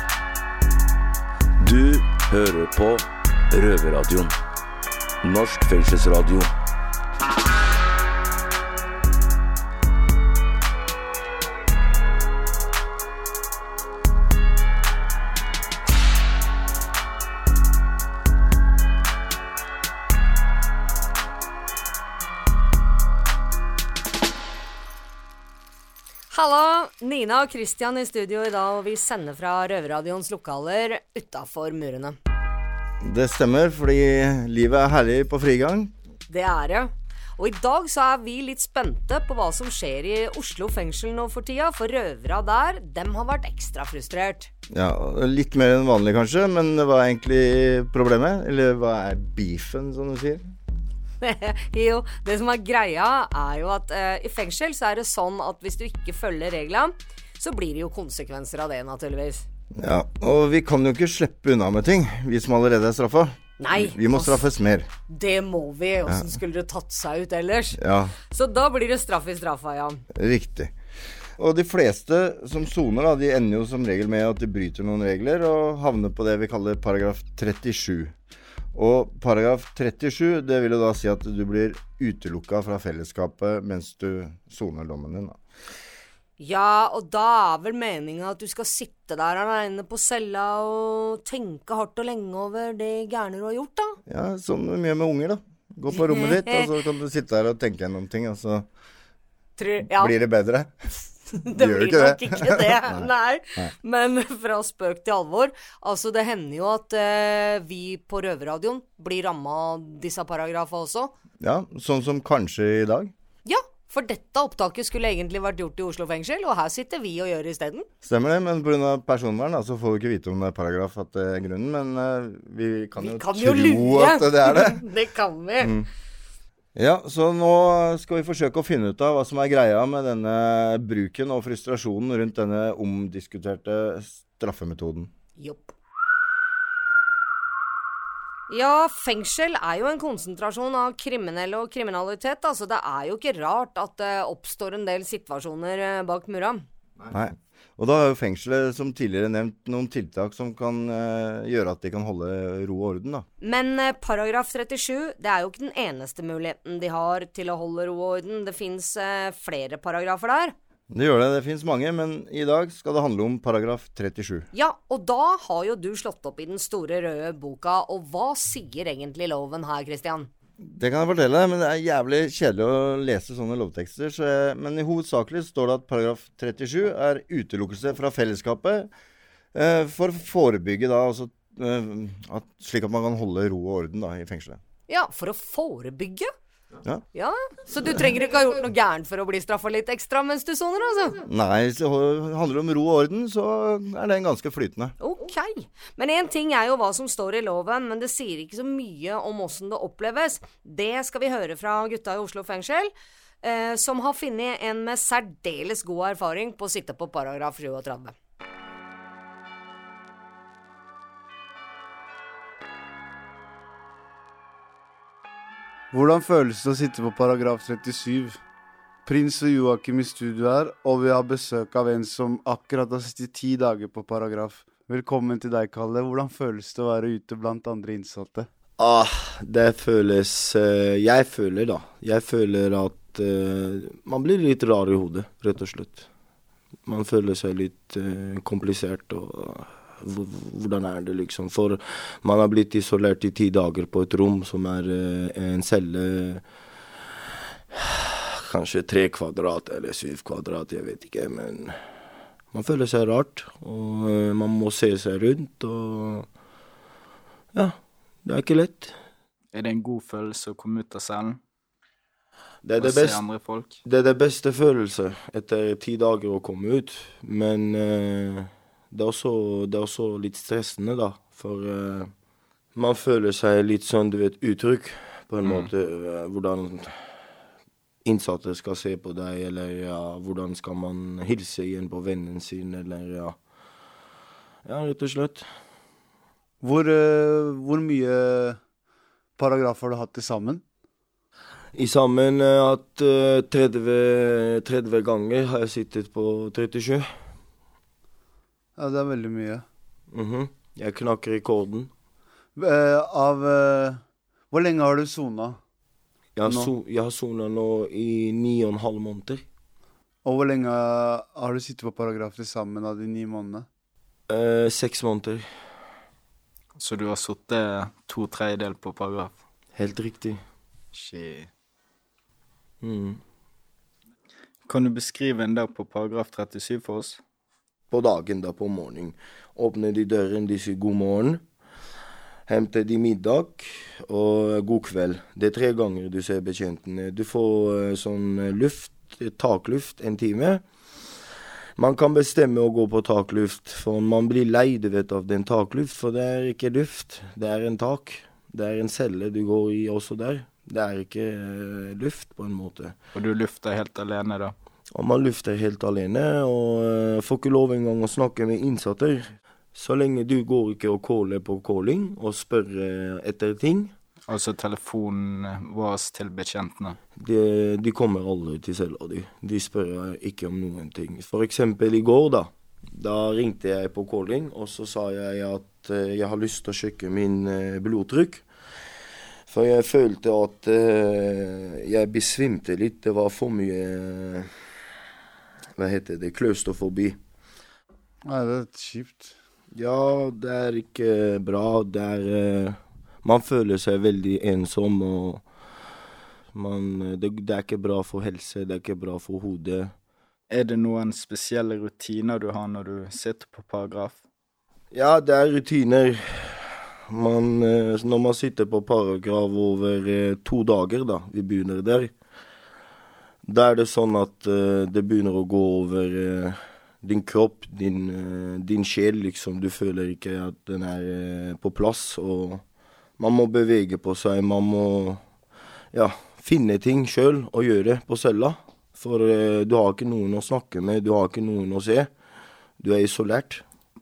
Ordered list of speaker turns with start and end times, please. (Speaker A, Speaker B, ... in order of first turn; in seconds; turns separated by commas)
Speaker A: 1.6-4.3, Speaker A: 5.2-6.5, Speaker B: 26.3-32.2, Speaker C: 33.0-35.9, Speaker B: 36.3-44.5, Speaker C: 44.7-50.4, Speaker B: 51.2-59.5, Speaker C: 59.7-64.9, Speaker B: 63.6-64.4, Speaker B: 65.1-70.0, Speaker C: 67.8-68.2, Speaker C: 70.1-70.7, Speaker C: 71.4-78.1, Speaker C: 78.7-85.4, Speaker B: 86.4-94.0, Speaker C: 94.1-98.7, Speaker B: 96.0-96.7, Speaker B: 99.6-100.2, Speaker C: 99.8-100.7, Speaker B: 101.3-111.1, Speaker C: 101.5-103.7, Speaker C: 111.4-113.1, Speaker B: 113.5-117.9, Speaker C: 118.0-124.8, Speaker B: 123.0-125.8, Speaker C: 125.6-125.9, Speaker C: 126.8-135.1, Speaker B: 135.4-135.7, Speaker B: 138.5-146.6, Speaker C: 147.0-153.2, Speaker B: 153.4-160.5, Speaker C: 160.9-164.5, Speaker B: 164.5-170.3, Speaker C: 170.6-178.9, Speaker C: 179.5-184.6, Speaker B: 184.9-186.3, Speaker B: 187.1-191.2, Speaker C: 191.2-194.9, Speaker B: 195.0-208.1, Speaker D: 215.9-218.4, Speaker D: 219.0-228.5, Speaker E: 228.8-236.0, Speaker E: 236.8-246.4, Speaker E: 247.7-251.8, Speaker E: 252.5-256.3, Speaker E: 257.5-258.9, Speaker F: 259.5-261.4, Speaker E: 262.6-263.2, Speaker F: 262.8-263.8, Speaker E: 263.8-272.1, Speaker E: 272.8-276.9, Speaker E: 278.0-283.4, Speaker E: 284.6-285.4, Speaker D: 286.6-288.6, Speaker D: 289.4-290.6, Speaker E: 291.7-297.2, Speaker D: 298.8-299.6, Speaker E: 300.1-301.9, Speaker D: 302.6-305.6, Speaker E: 306.4-309.4, Speaker D: 306.4-306.7, Speaker D: 310.2-313.7, Speaker E: 314.3-315.5, Speaker F: 316.8-319.3, Speaker E: 319.8-320.4, Speaker F: 320.9-321.5, Speaker E: 322.8-323.2, Speaker F: 324.7-327.2, Speaker E: 327.9-331.4, Speaker E: 332.5-340.6, Speaker E: 341.8-352.9, Speaker F: 353.1-354.6, Speaker E: 354.9-363.9, Speaker F: 364.3-367.0, Speaker E: 367.2-378.4, Speaker E: 379.5-384.5, Speaker E: 385.8-387.2, Speaker D: 388.2-389.3, Speaker E: 389.7-395.4, Speaker E: 396.5-399.9, Speaker F: 400.5-404.2, Speaker E: 404.9-412.1, Speaker E: 413.4-422.6, Speaker E: 423.2-425.2, Speaker E: 425.9-432.1, Speaker E: 432.8-433.6